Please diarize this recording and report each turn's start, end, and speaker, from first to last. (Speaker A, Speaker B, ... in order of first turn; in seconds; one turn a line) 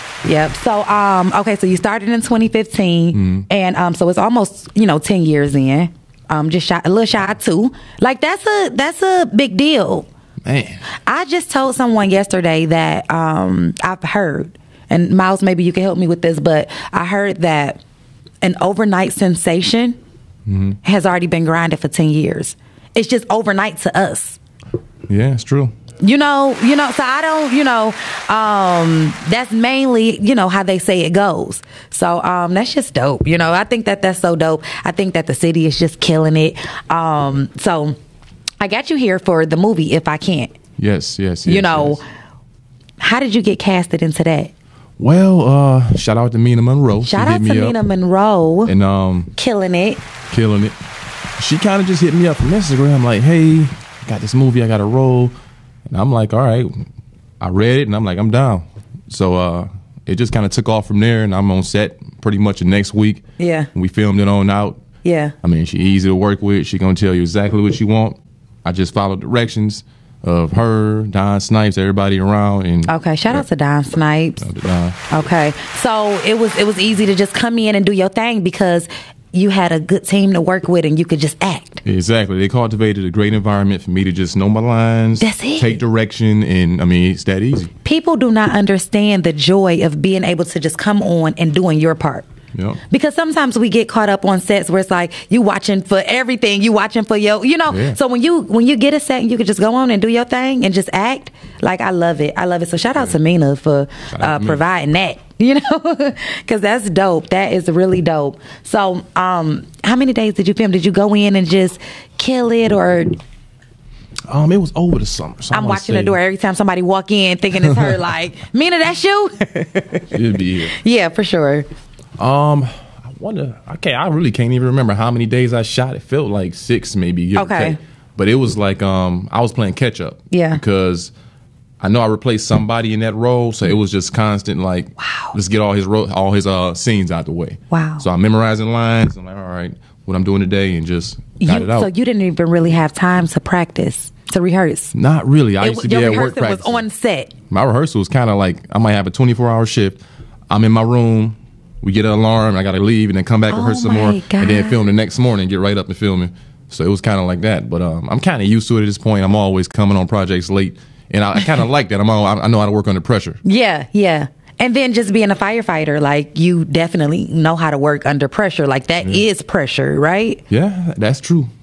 Speaker A: 0.2-10.1
Speaker B: 3.1-3.5
Speaker B: 10.4-10.8
Speaker A: 11.0-17.8
Speaker A: 18.4-20.0
Speaker B: 20.5-20.8
Speaker A: 20.8-24.4
Speaker B: 25.1-25.7
Speaker A: 26.0-38.0
Speaker A: 38.6-40.5
Speaker B: 40.8-42.0
Speaker A: 41.5-42.1
Speaker A: 43.0-44.5
Speaker B: 45.0-47.8
Speaker A: 47.0-48.7
Speaker B: 48.7-49.3
Speaker A: 49.4-50.0
Speaker B: 50.3-50.8
Speaker B: 51.4-55.4
Speaker B: 55.9-56.9
Speaker B: 57.4-64.8
Speaker A: 63.4-63.7
Speaker A: 65.0-65.3
Speaker B: 65.4-73.4
Speaker A: 72.9-74.4
Speaker B: 74.4-75.0
Speaker A: 75.1-81.8
Speaker B: 81.8-87.7
Speaker A: 85.2-85.8
Speaker A: 87.8-92.3
Speaker B: 92.5-92.8
Speaker A: 92.9-113.2
Speaker B: 97.7-98.0
Speaker B: 104.1-104.6
Speaker B: 114.3-116.2
Speaker A: 115.5-121.7
Speaker B: 120.1-120.8
Speaker B: 122.2-131.1
Speaker A: 127.3-127.8
Speaker A: 130.3-130.6
Speaker B: 131.8-141.9
Speaker A: 135.0-135.3
Speaker A: 137.7-138.1
Speaker A: 141.4-144.9
Speaker B: 144.9-146.9
Speaker A: 145.6-147.3
Speaker B: 147.5-163.4
Speaker A: 153.5-154.8
Speaker A: 163.4-170.4
Speaker B: 170.5-171.5